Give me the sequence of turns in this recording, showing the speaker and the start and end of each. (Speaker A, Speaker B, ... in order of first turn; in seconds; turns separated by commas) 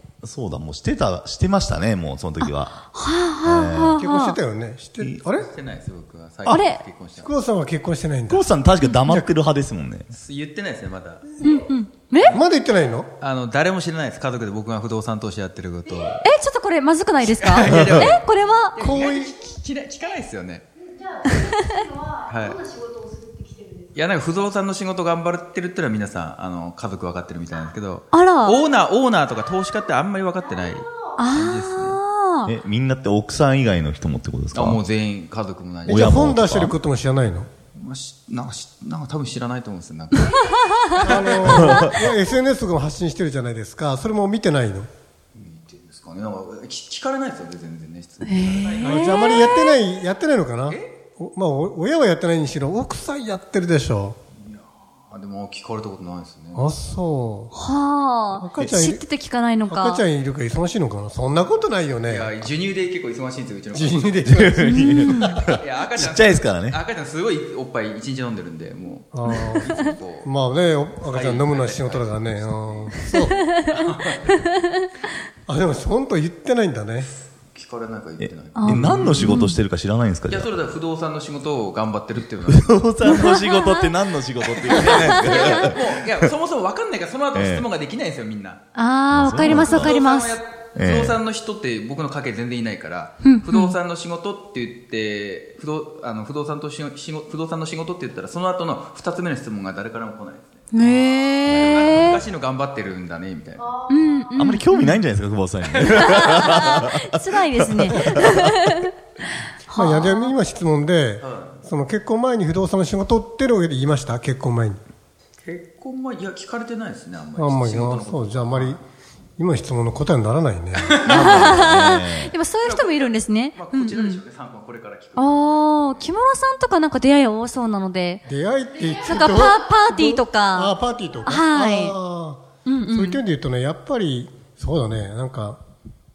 Speaker A: 0.2-2.8, Speaker B: 2.4-4.4, Speaker A: 3.4-4.0, Speaker C: 4.0-5.5, Speaker D: 5.4-7.3, Speaker B: 6.5-6.8, Speaker C: 7.2-8.5, Speaker A: 8.3-10.1, Speaker D: 10.1-11.3, Speaker B: 11.4-12.3, Speaker D: 12.2-12.4, Speaker C: 12.3-13.1, Speaker D: 13.2-16.2, Speaker B: 16.2-18.8, Speaker D: 17.2-20.7, Speaker A: 17.6-18.2, Speaker C: 18.8-19.3, Speaker E: 20.8-24.2, Speaker D: 22.3-22.6, Speaker D: 23.9-32.0, Speaker B: 28.1-28.6, Speaker E: 30.4-31.2, Speaker B: 31.2-32.5, Speaker A: 32.5-34.8, Speaker D: 34.5-36.1, Speaker C: 35.9-37.5, Speaker A: 35.9-36.8, Speaker D: 37.8-41.8, Speaker E: 40.4-41.3, Speaker C: 41.0-44.9, Speaker A: 41.7-41.9, Speaker D: 45.3-49.5, Speaker B: 48.2-49.8, Speaker C: 48.8-54.2, Speaker D: 54.4-56.7, Speaker C: 56.5-57.5, Speaker B: 57.5-60.0, Speaker C: 58.3-59.1, Speaker C: 59.7-62.3, Speaker D: 62.1-64.2, Speaker C: 63.7-65.4, Speaker A: 64.2-66.8, Speaker B: 64.6-65.3, Speaker D: 65.6-70.3, Speaker C: 69.1-73.4, Speaker D: 71.0-74.4, Speaker B: 73.2-74.8, Speaker C: 75.5-77.1, Speaker D: 77.1-79.2, Speaker A: 78.2-80.5, Speaker B: 78.6-79.6, Speaker C: 78.8-79.2, Speaker D: 80.3-82.7, Speaker A: 82.5-86.3, Speaker B: 83.0-83.9, Speaker D: 84.6-88.6, Speaker B: 84.7-85.7, Speaker A: 87.3-87.7, Speaker B: 88.8-90.4, Speaker A: 89.1-90.0, Speaker D: 89.3-103.7, Speaker A: 90.8-91.2, Speaker B: 93.2-93.8, Speaker B: 100.7-102.2, Speaker E: 103.6-104.3, Speaker B: 103.9-105.0, Speaker A: 104.3-108.7, Speaker B: 105.7-108.9, Speaker B: 109.7-110.3, Speaker C: 109.7-114.8, Speaker D: 111.2-111.6, Speaker D: 115.4-118.8, Speaker C: 117.3-118.8, Speaker C: 119.4-121.0, Speaker D: 120.8-121.6, Speaker A: 121.0-122.3, Speaker B: 121.0-124.2, Speaker D: 122.6-125.7, Speaker B: 125.2-128.2, Speaker C: 128.2-135.6, Speaker B: 128.9-130.7, Speaker B: 131.2-132.0, Speaker B: 132.7-133.2